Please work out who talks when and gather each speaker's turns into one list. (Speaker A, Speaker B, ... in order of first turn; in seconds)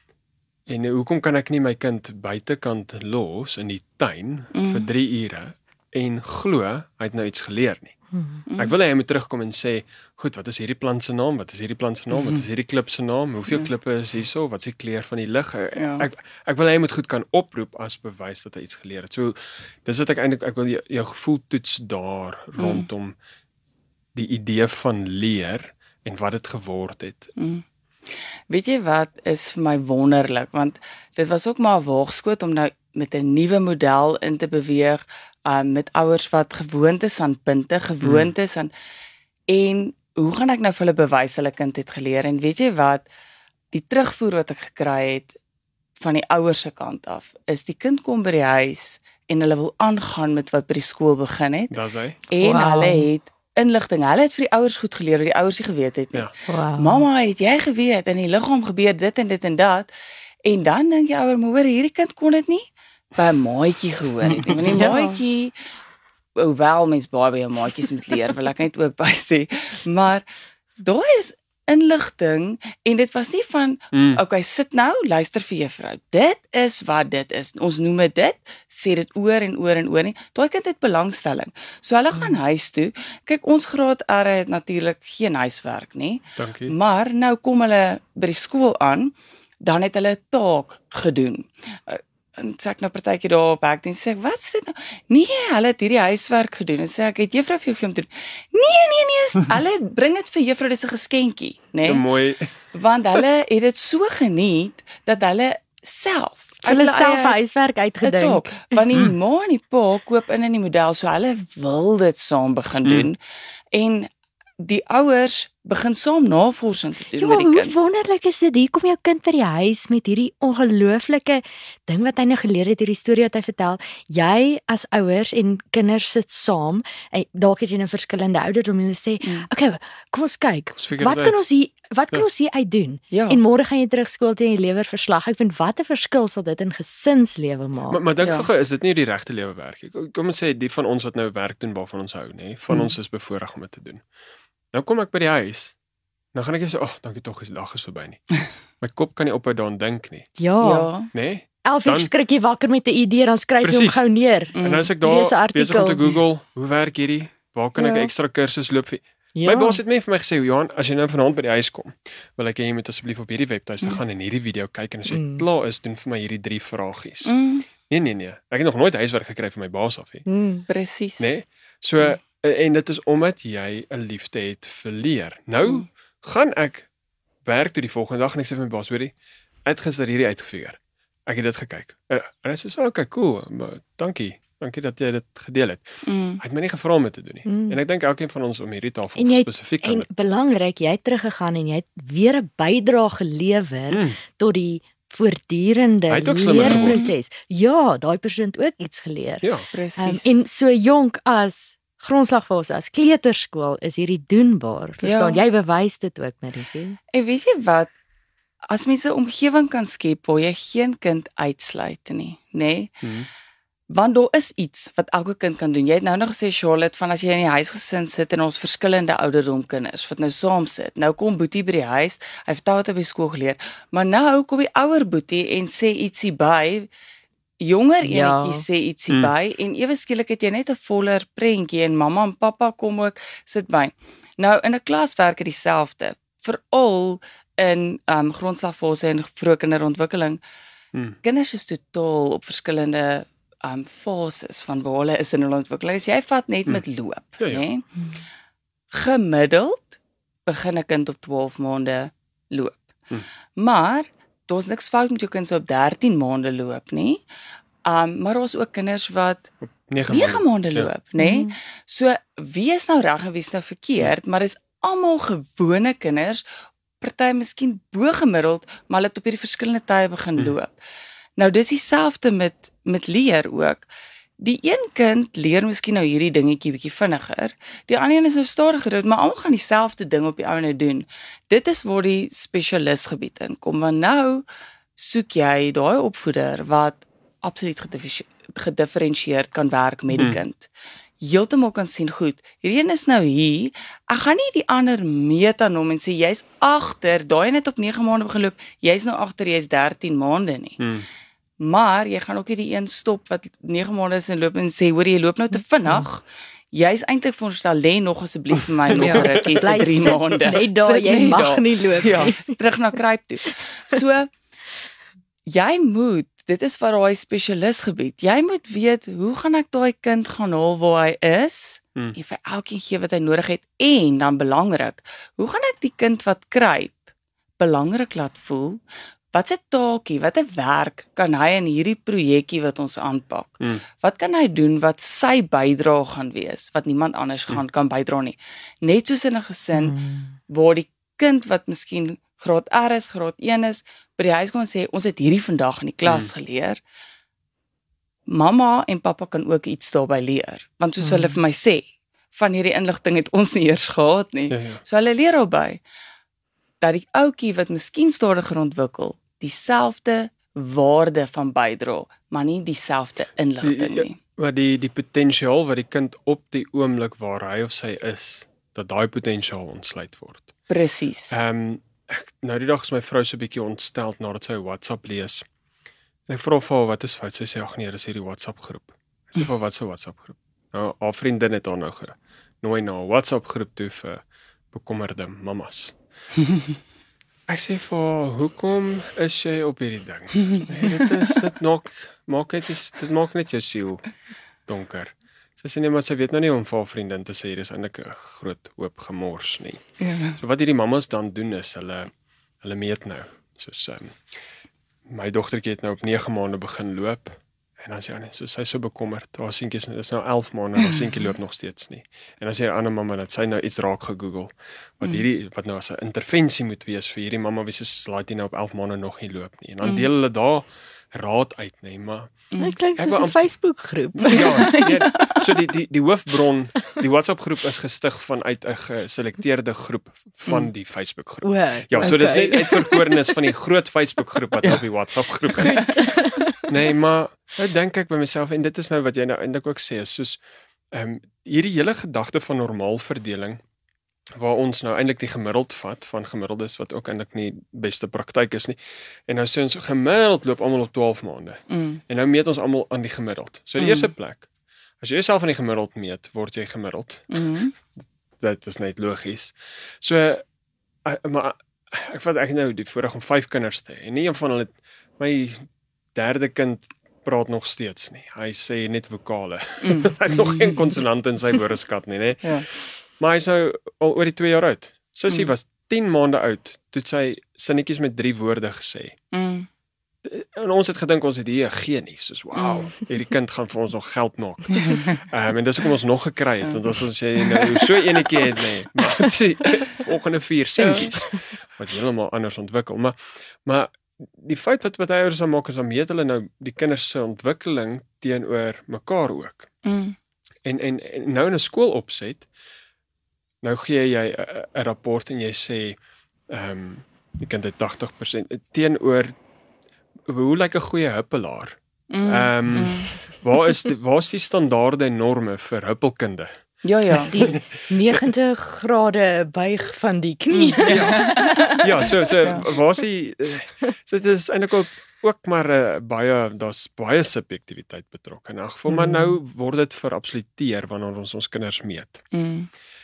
Speaker A: 0.7-8.0, 8.6-23.2, 24.1-27.3, 38.0-38.3, 51.7-52.2, 64.3-64.7, 73.9-74.2, 86.4-86.8, 101.8-102.5, 112.8-113.1, 130.8-131.4, 137.9-144.0, 144.7-145.8, 146.3-150.3, 151.1-152.1, 153.6-154.0, 154.6-167.3, 167.9-170.2, 171.2-176.9, 177.4-179.1, 179.7-190.1, 193.9-194.2, 196.1-197.0, 213.0-213.3, 259.9-260.9, 290.1-290.4, 300.8-301.1, 308.9-309.8, 346.1-346.3, 354.5-354.8, 363.6-370.5, 371.3-375.5, 376.3-386.0, 387.5-394.1, 394.7-399.8, 400.4-404.2, 405.1-423.4, 424.1-436.1, 436.7-440.4, 440.9-443.6, 444.3-454.5, 455.0-457.4, 458.4-460.4, 461.1-472.5, 473.2-479.2, 480.2-499.7, 500.6-502.5, 503.6-509.4, 510.3-516.6, 517.2-518.2, 520.9-532.2
Speaker B: 4.5-4.9, 12.1-12.4, 15.8-16.1, 22.6-22.9, 27.4-27.6, 28.5-38.7, 39.5-43.0, 43.7-45.4, 46.0-51.8, 52.3-59.9, 60.4-65.5, 66.4-70.2, 70.8-102.1, 102.7-107.4, 108.0-113.2, 113.7-114.1, 114.6-117.8, 129.2-129.5, 133.1-133.4, 138.2-138.5, 150.6-151.1, 154.6-154.9, 167.2-167.7, 170.7-171.3, 186.1-186.4, 196.6-197.0, 199.7-200.4, 205.0-205.4, 207.1-207.9, 208.7-213.0, 213.9-226.9, 227.6-240.4, 241.2-247.8, 248.9-252.9, 253.6-257.2, 257.9-259.5, 260.1-266.4, 267.0-270.7, 271.4-273.9, 274.4-284.4, 285.0-290.7, 291.2-300.8, 301.6-314.3, 315.5-327.0, 327.6-328.8, 329.3-346.8, 348.3-355.8, 356.8-364.2, 370.7-371.4, 390.4-391.1, 400.0-400.4, 424.4-425.4, 432.0-432.8, 435.6-435.9, 451.7-452.0, 453.8-454.1, 457.3-457.8, 469.8-470.9, 479.3-479.7, 482.5-483.0, 484.8-485.1, 487.4-487.9, 490.8-491.2, 499.8-500.2, 512.1-513.1, 516.8-517.4, 520.5-521.8, 532.3-532.7
Speaker C: 8.1-8.4, 52.4-53.1, 56.5-57.1, 64.7-65.2, 106.6-108.6, 117.2-138.0, 150.4-150.9, 151.7-156.1, 157.8-158.1, 159.3-159.8, 165.1-165.4, 170.3-170.6, 187.5-187.8, 189.2-207.0, 228.0-228.6, 261.2-261.6, 308.9-312.6, 339.7-340.3, 351.0-351.4, 422.6-425.1, 431.4-433.0, 435.7-436.6, 517.1-522.1, 528.9-529.3